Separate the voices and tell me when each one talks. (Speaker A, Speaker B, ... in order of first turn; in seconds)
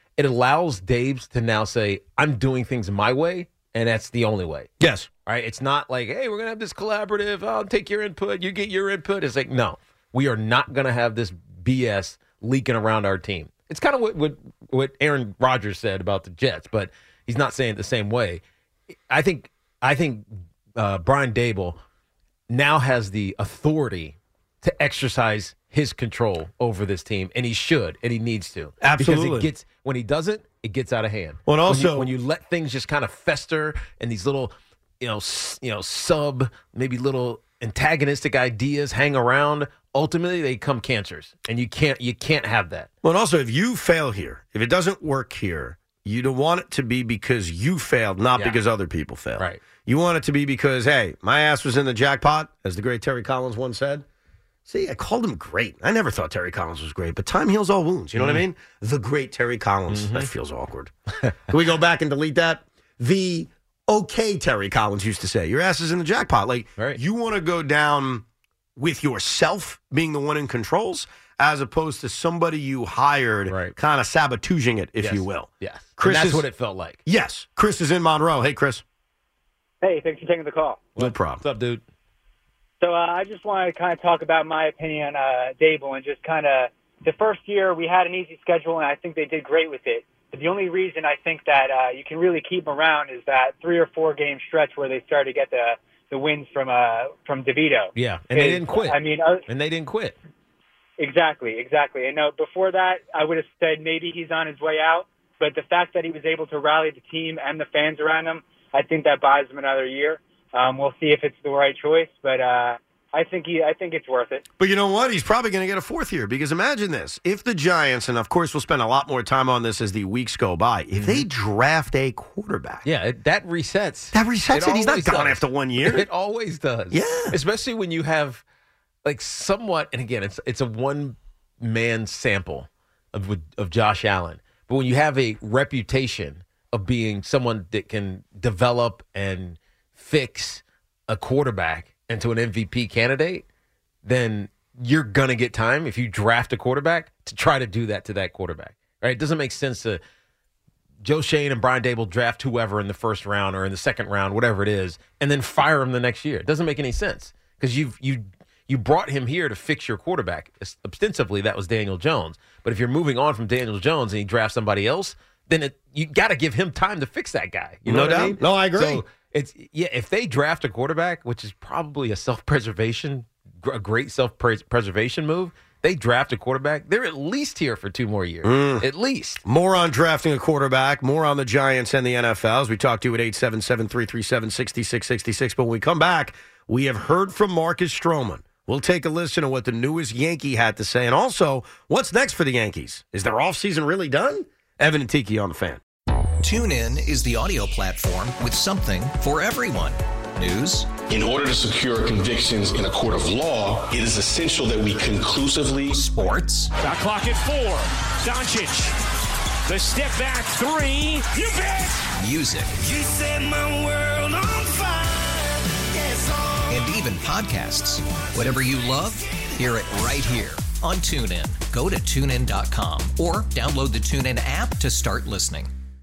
Speaker A: 0.2-4.7, 5.3-18.4, 19.1-21.8, 22.5-42.9, 48.4-48.6, 49.4-49.6, 58.2-58.4, 59.9-60.3, 73.5-73.8, 75.0-77.0, 81.0-81.8, 98.0-100.2, 120.9-121.2, 122.8-128.4, 129.1-143.4, 144.0-150.0, 151.0-179.4
Speaker B: 4.8-5.1, 28.8-29.5, 31.5-32.1, 43.0-54.0, 54.7-60.9, 61.5-68.2, 68.8-76.5, 77.1-78.8, 81.0-81.4, 114.6-122.9, 124.1-126.1, 126.9-127.4, 167.9-169.0, 178.4-178.9, 179.4-195.8
Speaker C: 79.8-80.9, 82.8-99.5, 101.0-114.5
Speaker D: 196.4-200.9, 205.9-206.7, 212.2-212.8, 216.7-225.7
Speaker E: 201.1-206.0
Speaker F: 206.8-208.9, 209.7-212.1
Speaker G: 212.9-215.4, 215.9-216.6